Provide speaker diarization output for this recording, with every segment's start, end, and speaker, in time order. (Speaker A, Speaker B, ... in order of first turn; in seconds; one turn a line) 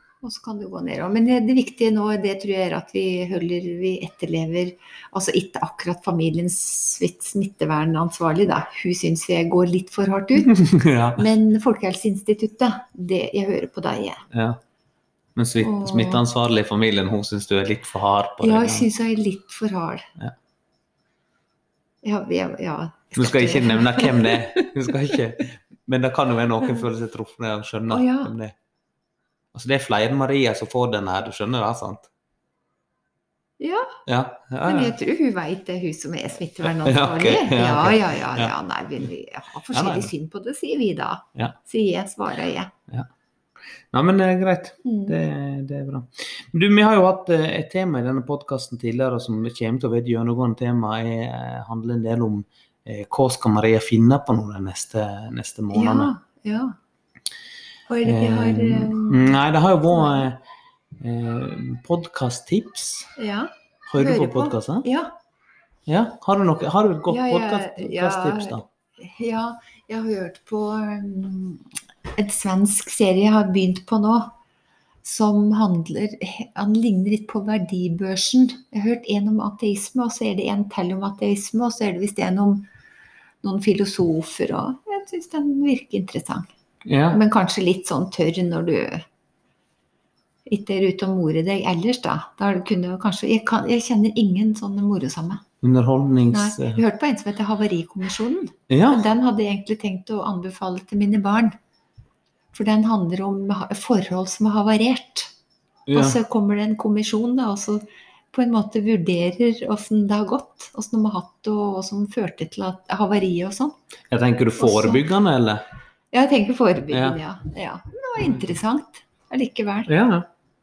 Speaker A: 0.2-14.2
Speaker B: 10.4-11.3
Speaker B: 14.3-14.6
Speaker B: 15.4-18.9
Speaker A: 15.6-16.2
Speaker A: 18.4-20.1
Speaker A: 22.0-24.9
Speaker B: 23.1-28.6
Speaker A: 27.9-28.3
Speaker B: 29.5-32.1
Speaker A: 33.6-34.0
Speaker B: 34.1-35.0
Speaker A: 34.6-42.7
Speaker B: 36.6-38.5
Speaker B: 39.7-40.1
Speaker B: 43.9-56.1
Speaker A: 44.8-45.2
Speaker A: 55.7-56.8
Speaker A: 57.9-59.4
Speaker B: 58.0-60.4
Speaker B: 61.0-63.1
Speaker A: 63.2-65.2
Speaker B: 63.9-64.9
Speaker B: 65.9-68.7
Speaker A: 67.1-74.3
Speaker A: 75.0-82.7
Speaker A: 83.4-86.5
Speaker B: 86.8-87.2
Speaker A: 87.1-89.0
Speaker A: 90.5-95.4
Speaker B: 95.6-96.8
Speaker A: 96.3-101.6
Speaker B: 98.7-99.0
Speaker A: 102.5-105.3
Speaker B: 105.9-106.2
Speaker A: 105.9-113.8
Speaker B: 114.1-115.6
Speaker A: 114.6-115.0
Speaker A: 116.1-119.9
Speaker B: 116.9-117.2
Speaker B: 119.9-120.3